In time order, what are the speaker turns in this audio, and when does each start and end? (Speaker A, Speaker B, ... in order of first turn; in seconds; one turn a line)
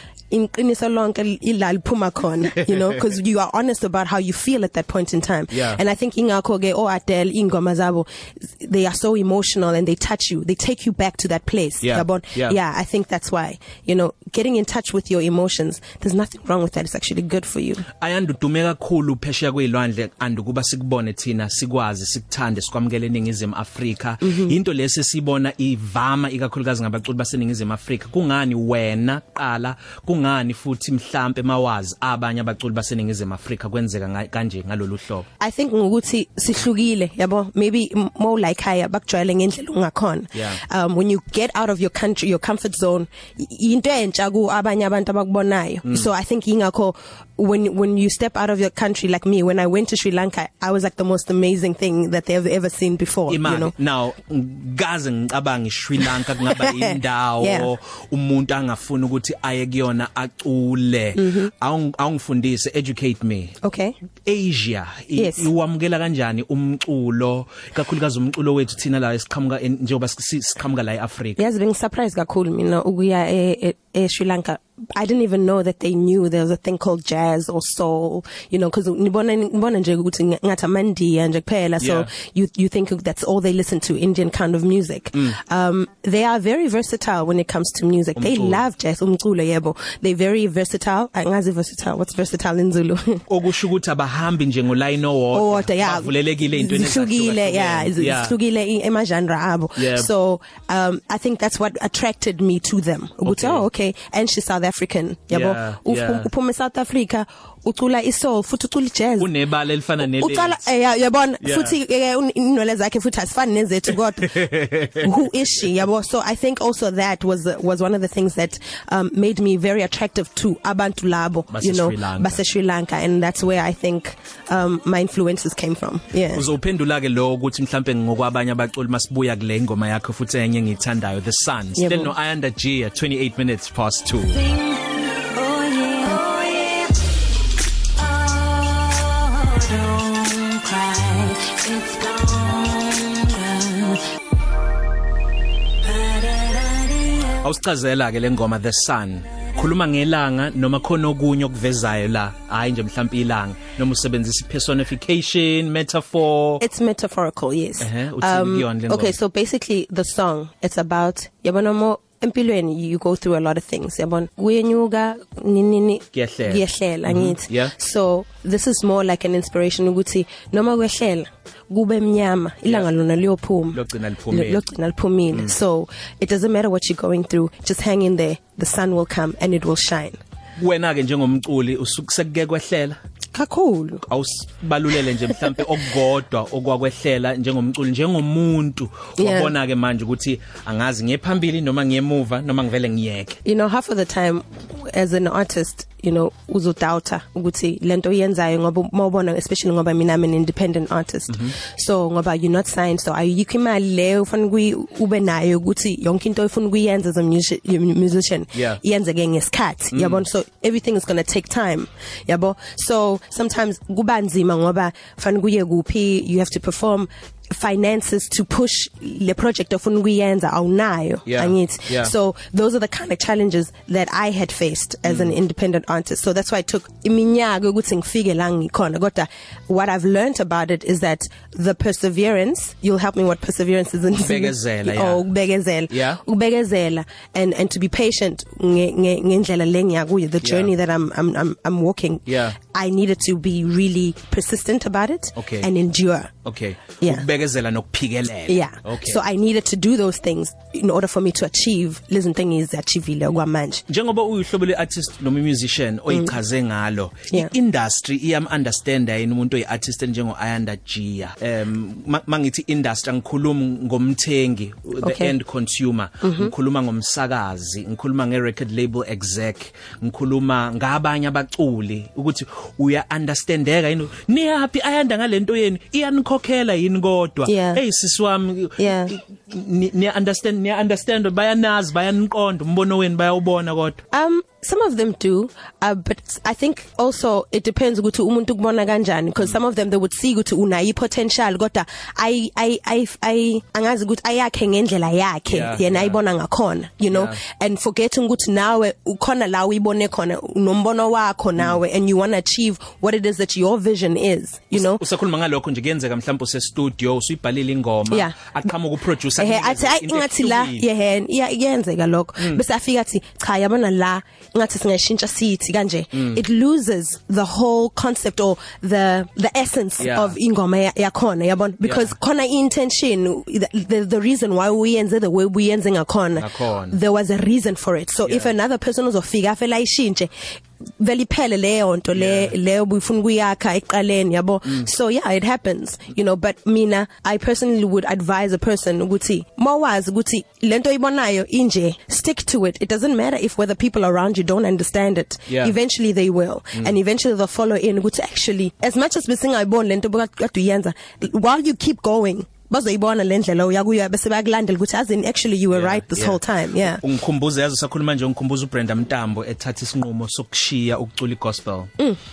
Speaker A: 0.3-17.9
Speaker B: 5.5-5.8
Speaker B: 11.8-12.6
Speaker B: 17.9-35.3
Speaker A: 24.2-24.6
Speaker A: 35.4-53.7
Speaker B: 53.3-63.6
Speaker A: 56.4-57.7
Speaker A: 61.2-61.5
Speaker A: 63.6-64.0
Speaker B: 64.2-71.4
Speaker A: 65.2-65.5
Speaker A: 71.4-93.2
Speaker B: 81.8-82.1
Speaker B: 88.2-88.6
Speaker B: 93.3-98.4
Speaker A: 95.3-109.4
Speaker B: 99.8-100.1
Speaker B: 103.2-103.7
Speaker B: 105.3-106.3
Speaker B: 109.2-110.7
Speaker A: 110.0-126.5
Speaker B: 111.4-111.8
Speaker B: 114.3-115.1
Speaker B: 121.5-122.4
Speaker B: 126.3-134.5
Speaker A: 131.8-132.1
Speaker C: 134.4-137.1
Speaker C: 138.0-144.1
Speaker C: 145.8-147.3
Speaker B: 147.4-156.6
Speaker A: 156.6-180.2
Speaker B: 157.8-159.2
Speaker B: 166.1-167.7
Speaker B: 173.7-174.6
Speaker B: 180.6-183.0
Speaker A: 183.3-184.0
Speaker B: 184.1-193.4
Speaker A: 189.2-189.5
Speaker A: 193.4-246.3
Speaker B: 201.3-201.6
Speaker B: 208.5-208.8
Speaker B: 209.9-210.2
Speaker B: 221.3-222.1
Speaker B: 225.1-225.3
Speaker B: 234.2-235.2
Speaker B: 235.9-236.2
Speaker B: 240.4-240.7
Speaker B: 242.3-242.6
Speaker B: 245.4-245.7
Speaker B: 246.4-249.2
Speaker A: 247.0-247.3
Speaker A: 248.5-253.8
Speaker B: 253.9-284.0
Speaker A: 256.1-256.4
Speaker A: 265.0-265.4
Speaker A: 266.2-266.5
Speaker A: 277.5-277.8
Speaker A: 278.8-279.1
Speaker A: 284.1-305.0
Speaker B: 295.5-296.2
Speaker B: 297.1-297.4
Speaker B: 304.7-310.9
Speaker A: 308.1-308.4
Speaker A: 309.4-330.3
Speaker B: 316.1-316.4
Speaker B: 320.0-320.4
Speaker B: 321.8-322.1
Speaker B: 326.4-327.0
Speaker B: 328.3-328.5
Speaker A: 331.0-357.0
Speaker B: 332.1-332.5
Speaker B: 345.5-345.7
Speaker B: 355.7-361.9